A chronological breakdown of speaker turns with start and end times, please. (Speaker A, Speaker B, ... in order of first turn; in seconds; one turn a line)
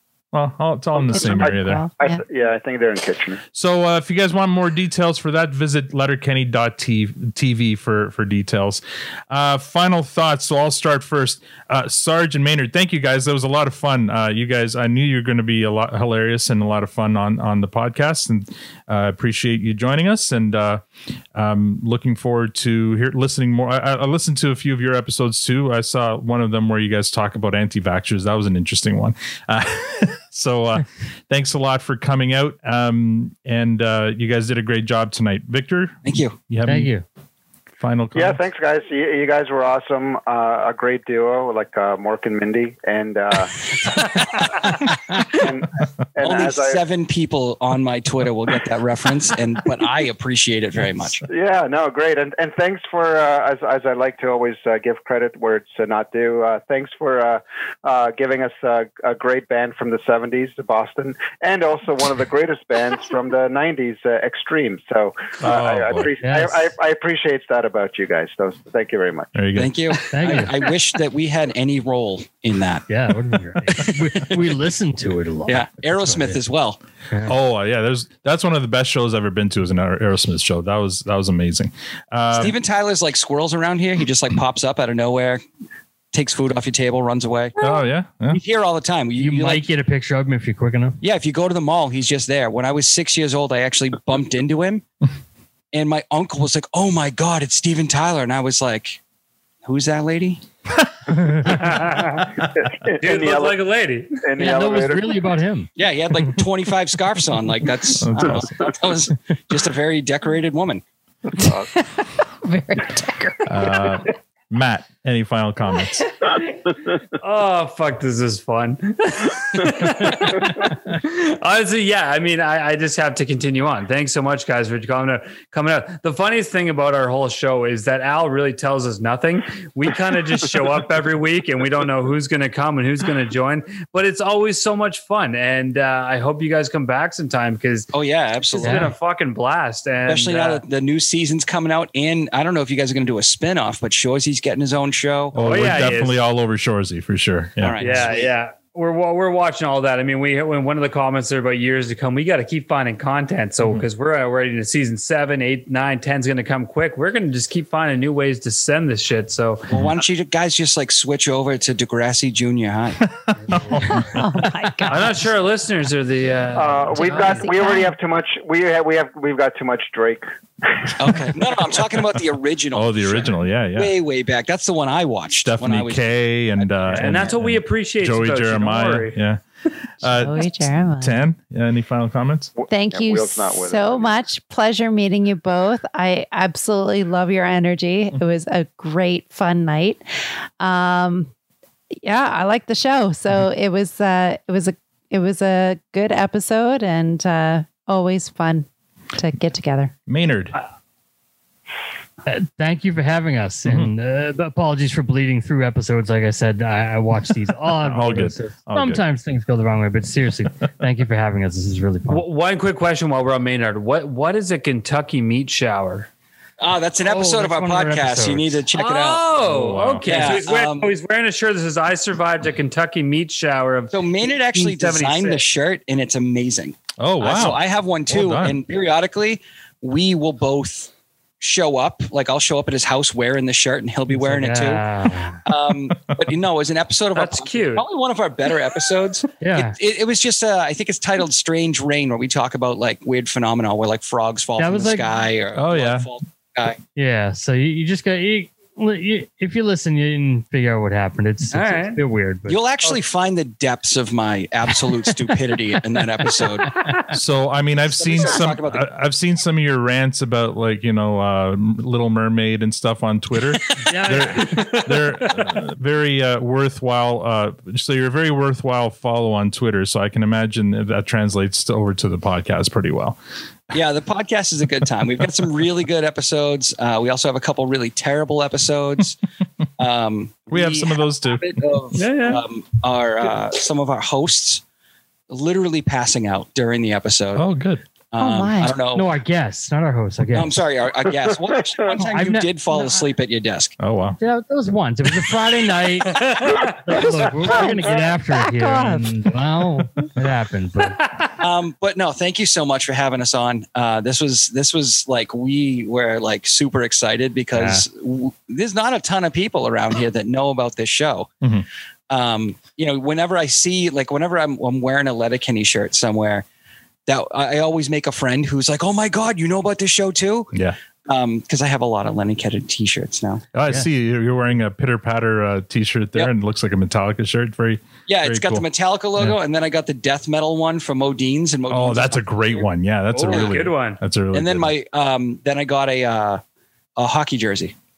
Speaker A: 0.3-1.9
Speaker B: 0.9-3.4
Speaker C: 1.1-2.2
Speaker A: 3.5-20.8
Speaker A: 21.3-36.9
Speaker D: 36.0-36.4
Speaker E: 36.6-37.0
Speaker A: 37.8-38.4
Speaker B: 38.1-43.6
Speaker D: 44.0-44.7
Speaker B: 45.3-46.8
Speaker D: 46.2-51.2
Speaker B: 51.3-69.3
Speaker A: 65.4-66.1
Speaker E: 66.2-66.6
Speaker A: 69.3-69.8
Speaker D: 69.5-72.8
Speaker E: 70.1-70.6
Speaker E: 72.9-76.4
Speaker D: 73.7-74.4
Speaker D: 75.5-76.8
Speaker E: 77.1-77.4
Speaker A: 77.2-82.5
Speaker D: 82.3-85.4
Speaker D: 86.1-87.6
Speaker A: 87.6-88.4
Speaker D: 88.3-89.7
Speaker E: 89.2-91.0
Speaker D: 91.0-94.8
Speaker D: 95.7-99.0
Speaker D: 99.6-100.4
Speaker F: 101.4-102.3
Speaker B: 102.5-103.6
Speaker F: 103.0-104.2
Speaker B: 104.2-105.2
Speaker E: 104.4-105.7
Speaker D: 105.8-110.8
Speaker A: 107.9-108.7
Speaker B: 111.4-111.7
Speaker C: 111.4-113.9
Speaker A: 113.5-116.2
Speaker F: 117.2-137.9
Speaker D: 137.9-138.9
Speaker F: 138.5-140.6
Speaker E: 138.6-138.9
Speaker D: 140.1-145.9
Speaker A: 145.3-147.8
Speaker F: 145.4-146.2
Speaker D: 147.6-148.3
Speaker F: 147.8-159.7
Speaker D: 159.7-163.0
Speaker A: 163.1-164.2
Speaker C: 163.8-165.3
Speaker F: 164.9-167.5
Speaker B: 166.5-170.2
Speaker C: 166.9-167.9
Speaker D: 171.0-176.1
Speaker A: 172.7-173.9
Speaker A: 175.4-179.4
Speaker D: 176.6-177.1
Speaker F: 176.9-179.2
Speaker A: 180.0-182.5
Speaker C: 180.0-181.2
Speaker B: 182.6-184.2
Speaker C: 182.7-190.0
Speaker C: 190.6-191.3
Speaker C: 192.0-199.9
Speaker A: 200.1-200.5
Speaker E: 202.2-212.2
Speaker A: 203.7-203.9
Speaker A: 207.8-209.0
Speaker F: 212.1-216.1
Speaker D: 216.6-219.3
Speaker E: 217.0-218.6
Speaker F: 218.7-225.4
Speaker A: 219.4-220.3
Speaker D: 220.0-220.9
Speaker D: 223.9-234.8
Speaker A: 227.0-228.6
Speaker E: 234.1-235.4
Speaker D: 235.4-246.8
Speaker F: 237.1-237.8
Speaker E: 239.4-239.8
Speaker E: 244.6-245.1
Speaker A: 245.5-246.1
Speaker E: 246.9-252.7
Speaker F: 251.5-252.0
Speaker D: 252.5-256.7
Speaker E: 256.2-256.9
Speaker A: 257.1-273.2
Speaker D: 257.9-258.9
Speaker E: 263.8-264.7
Speaker F: 264.2-265.3
Speaker D: 273.7-279.2
Speaker D: 279.8-284.6
Speaker A: 280.5-281.6
Speaker F: 281.9-282.4
Speaker D: 285.3-287.4
Speaker A: 287.3-287.8
Speaker D: 288.1-289.1
Speaker C: 288.2-288.8
Speaker E: 288.9-290.5
Speaker D: 290.3-293.7
Speaker E: 291.9-292.5
Speaker A: 293.8-294.2
Speaker E: 294.2-301.1
Speaker F: 296.1-297.3
Speaker C: 297.5-297.9
Speaker C: 298.5-299.1
Speaker D: 301.4-311.3
Speaker E: 307.5-307.8
Speaker D: 312.1-316.4
Speaker D: 317.1-320.5
Speaker D: 321.1-323.4
Speaker A: 323.5-328.6
Speaker D: 328.1-332.7
Speaker A: 331.7-334.7
Speaker F: 333.1-334.0
Speaker D: 333.2-333.6
Speaker D: 334.3-336.4
Speaker D: 337.0-337.7